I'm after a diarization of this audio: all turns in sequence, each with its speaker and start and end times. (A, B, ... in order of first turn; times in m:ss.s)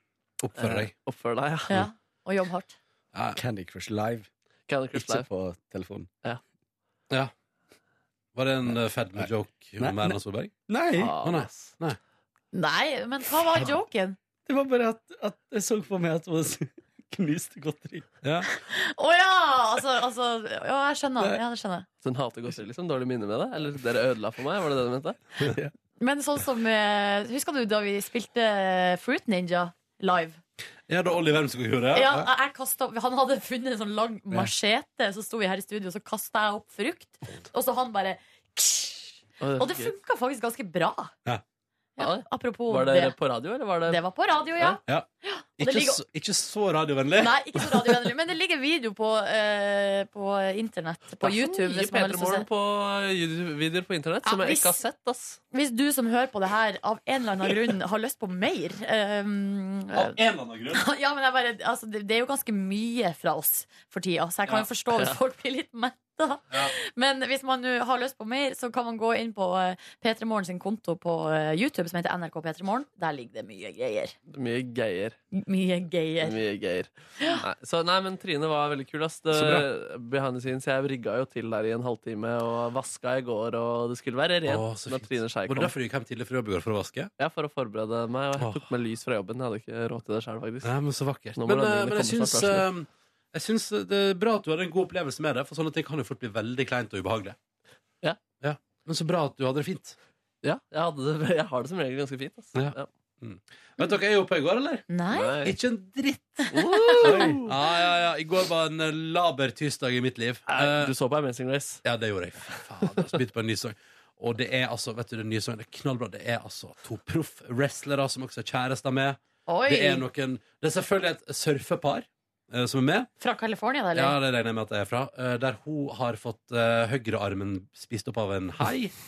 0:00.4-0:00.9 A
0:00.6-0:01.8 B
0:01.7-0:02.7 C
0:03.1-0:03.4 A
0:03.3-0:04.3 D
0:04.7-0:05.2 B
0:04.9-0:06.1 D
0:08.3-0:10.5 A
0:09.8-0:10.2 D
0:10.7-0:11.1 D
0:11.0-0:11.7 B
0:11.2-0:12.0 A
0:12.5-0:14.2 C
0:14.4-0:18.1 D
0:18.2-0:18.5 A
0:18.5-0:21.8 C
0:22.0-0:25.2 B
0:25.4-0:25.7 D
0:26.0-0:30.4 C
0:30.9-0:32.3 A
0:31.9-0:41.1 C
0:39.4-0:39.9 B
0:42.0-0:43.2 C
0:42.0-0:44.0 B
0:43.9-0:46.0 C
0:45.6-0:48.1 A
0:47.2-0:52.4 C
0:51.2-0:55.4 B
0:54.2-0:54.8 C
0:55.5-1:00.2 C
0:59.9-1:00.8 A
1:00.7-1:14.1 C
1:04.5-1:05.2 B
1:14.3-1:15.2 B
1:15.3-1:16.4 C
1:16.2-1:25.7 B
1:19.3-1:19.6 A
1:24.5-1:27.1 A
1:27.2-1:30.7 B
1:28.4-1:28.6 A
1:30.6-1:37.4 A
1:31.4-1:32.6 B
1:38.4-1:40.0 A
1:40.4-1:42.9 B
1:42.5-1:44.9 A
1:44.9-1:45.3 C
1:45.1-1:45.5 B
1:45.4-1:50.9 A
1:46.5-1:47.5 B
1:47.0-1:47.4 D
1:50.5-1:51.8 B
1:51.8-2:03.1 A
1:52.5-1:52.9 B
1:59.5-2:00.0 C
2:03.2-2:04.2 C
2:03.9-2:08.9 A